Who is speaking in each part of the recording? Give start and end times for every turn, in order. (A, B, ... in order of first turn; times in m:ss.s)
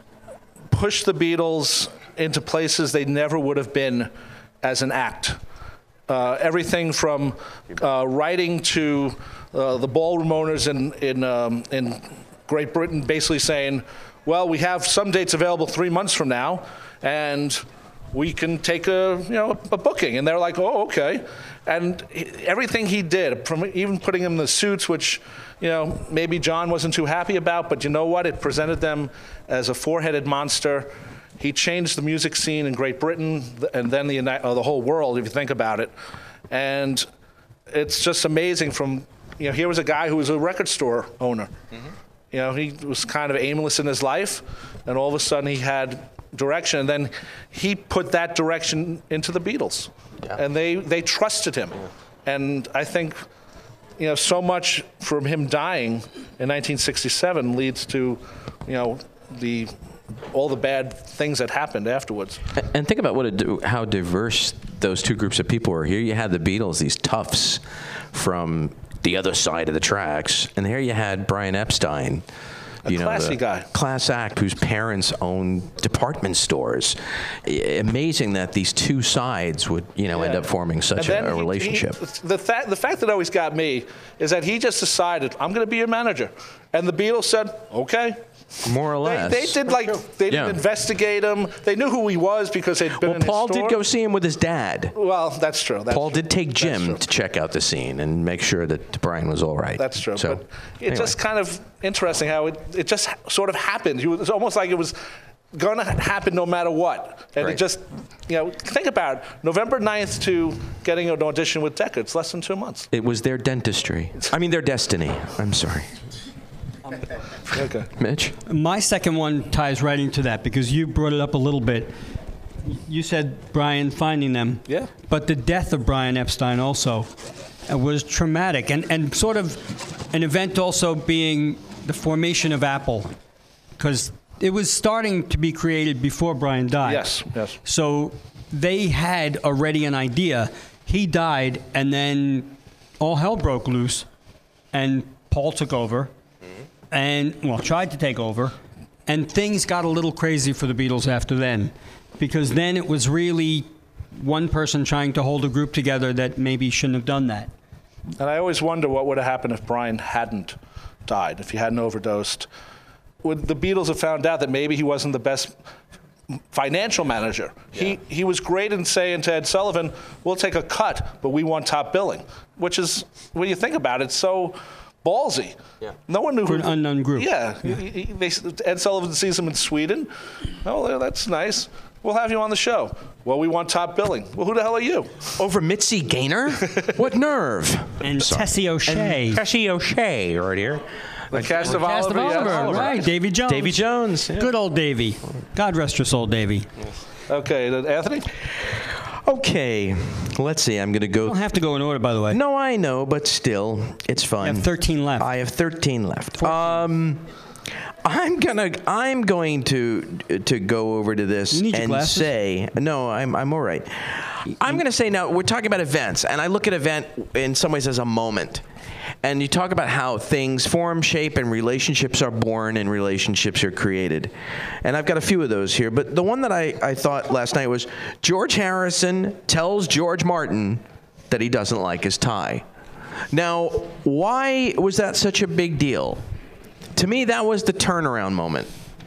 0:00.7-0:04.1 A
0:04.6-0:05.4 A
0:06.1-0:35.9 A
0:36.5-0:37.0 A
0:37.7-0:41.5 A
0:42.3-0:53.2 A
0:54.0-0:59.7 A
1:00.3-1:02.4 A
1:02.5-1:12.2 B
1:12.8-1:22.0 B
1:12.8-1:13.7 A
1:20.2-1:20.4 A
1:21.0-1:28.2 A
1:28.6-1:29.7 B
1:29.0-1:33.8 A
1:30.3-1:30.6 B
1:33.0-1:34.9 B
1:34.9-1:37.0 A
1:35.9-1:41.2 B
1:39.8-1:45.0 A
1:45.5-1:52.9 A
1:52.9-1:55.9 B
1:57.5-1:57.9 A
1:58.0-1:58.3 B
1:58.4-2:01.9 C
2:02.6-2:07.1 C
2:07.7-2:13.1 C
2:13.8-2:17.1 C
2:16.8-2:17.6 A
2:17.6-2:24.0 C
2:24.7-2:26.1 C
2:26.9-2:28.6 C
2:29.1-2:37.5 C
2:38.2-2:40.5 A
2:41.1-2:42.5 A
2:43.2-2:45.5 A
2:46.5-3:00.1 A
2:56.5-2:57.7 C
3:00.6-3:05.3 A
3:05.4-3:14.5 B
3:08.0-3:09.4 C
3:11.3-3:13.1 A
3:11.6-3:16.7 C
3:17.3-3:18.3 A
3:18.6-3:21.4 B
3:21.2-3:22.4 C
3:22.3-3:27.2 B
3:24.4-3:25.3 C
3:28.0-3:38.6 B
3:31.5-3:32.3 C
3:39.2-3:52.6 B
3:53.3-3:56.2 B
3:56.9-3:58.7 B